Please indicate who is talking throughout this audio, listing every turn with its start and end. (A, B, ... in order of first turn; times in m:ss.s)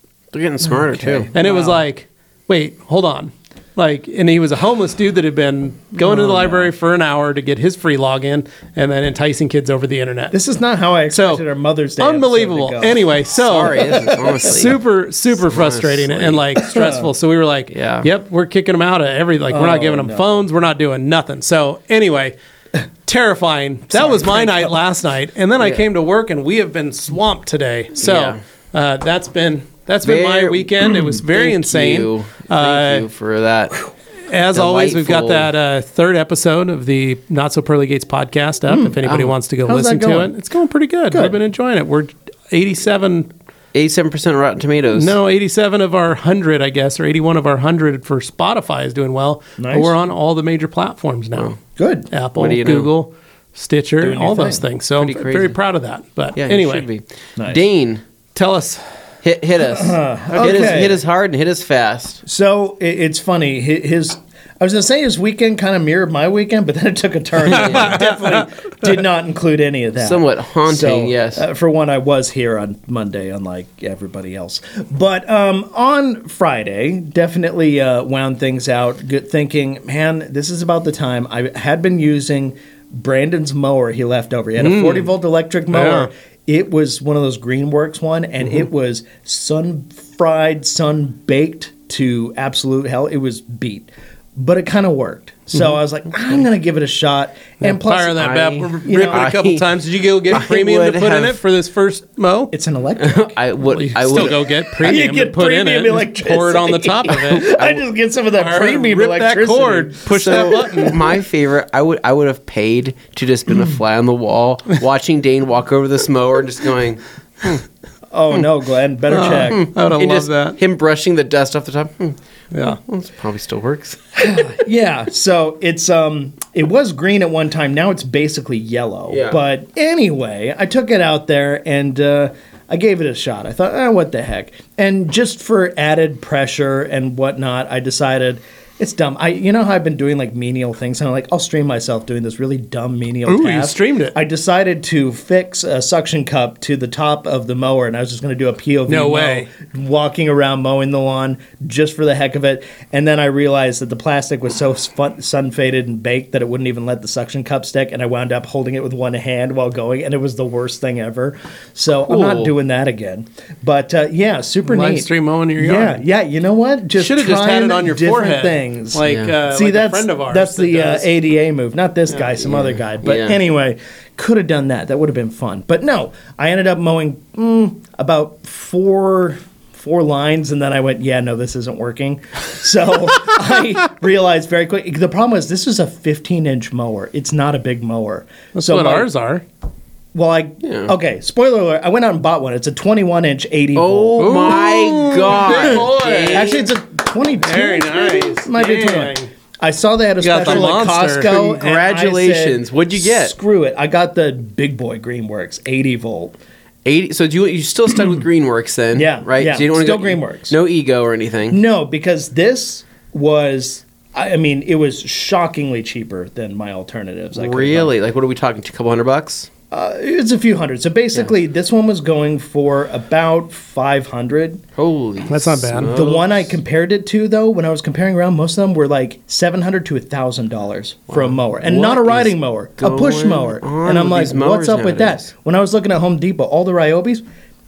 0:00.3-0:01.3 A
0:00.6-0:01.8 B
0:01.3-0:10.4 C
0:06.0-0:06.7 B
0:10.3-0:14.8 B
0:11.1-0:11.4 C
0:12.0-0:22.3 C
0:13.4-0:14.8 A
0:15.3-0:16.4 A
0:16.6-0:17.1 B
0:17.7-0:18.1 A
0:19.5-0:20.3 B
0:23.0-0:33.0 C
0:23.9-0:24.7 B
0:28.0-0:28.4 A
0:30.0-0:33.8 A
0:34.3-0:43.3 C
0:34.5-0:35.5 A
0:38.7-0:39.0 B
0:39.0-0:39.3 A
0:39.6-0:40.3 B
0:41.1-0:41.4 B
0:43.7-0:45.2 A
0:44.9-0:51.5 C
0:49.6-0:49.9 B
0:51.8-0:52.1 B
0:52.1-0:56.9 C
0:52.4-0:52.9 A
0:54.0-0:54.6 B
0:55.0-0:55.6 A
0:56.4-0:58.0 A
0:57.4-0:57.6 B
0:58.3-0:58.8 C
0:59.2-1:02.2 A
0:59.6-1:01.0 B
1:00.3-1:00.9 C
1:02.2-1:39.2 B
1:07.5-1:08.0 A
1:07.5-1:08.5 C
1:10.0-1:11.4 A
1:24.6-1:25.1 C
1:25.7-1:26.1 C
1:37.6-1:42.5 C
1:38.2-1:39.7 A
1:40.3-1:41.4 A
1:42.5-1:43.4 B
1:43.0-1:44.4 A
1:43.6-1:47.5 C
1:44.1-1:51.0 B
1:47.1-1:47.8 A
1:48.3-1:51.0 C
1:50.2-1:57.6 A
1:58.1-1:59.7 B
1:59.1-2:00.6 C
1:59.3-2:04.4 A
2:02.5-2:02.8 C
2:04.2-3:09.1 B
2:09.1-2:09.4 A
2:23.2-2:24.1 C
2:28.9-2:29.5 C
2:42.0-2:42.5 A
2:44.6-2:46.0 C
2:47.0-2:51.1 C
2:49.0-2:49.3 A
2:52.4-2:53.4 A
3:08.5-3:09.4 C
3:10.1-3:14.7 B
3:10.6-3:10.9 A
3:13.8-3:16.6 A
3:14.2-3:16.6 C
3:15.3-3:26.4 B
3:17.4-3:19.3 C
3:20.2-3:21.4 C
3:20.4-3:20.7 A
3:21.2-3:23.4 A
3:26.8-3:31.6 A
3:28.9-3:30.6 B
3:31.5-3:37.9 B
3:37.3-3:39.5 A
3:39.7-3:44.6 B
3:44.8-3:46.5 A
3:45.3-3:45.9 C
3:45.8-3:57.2 B
3:51.1-3:55.2 A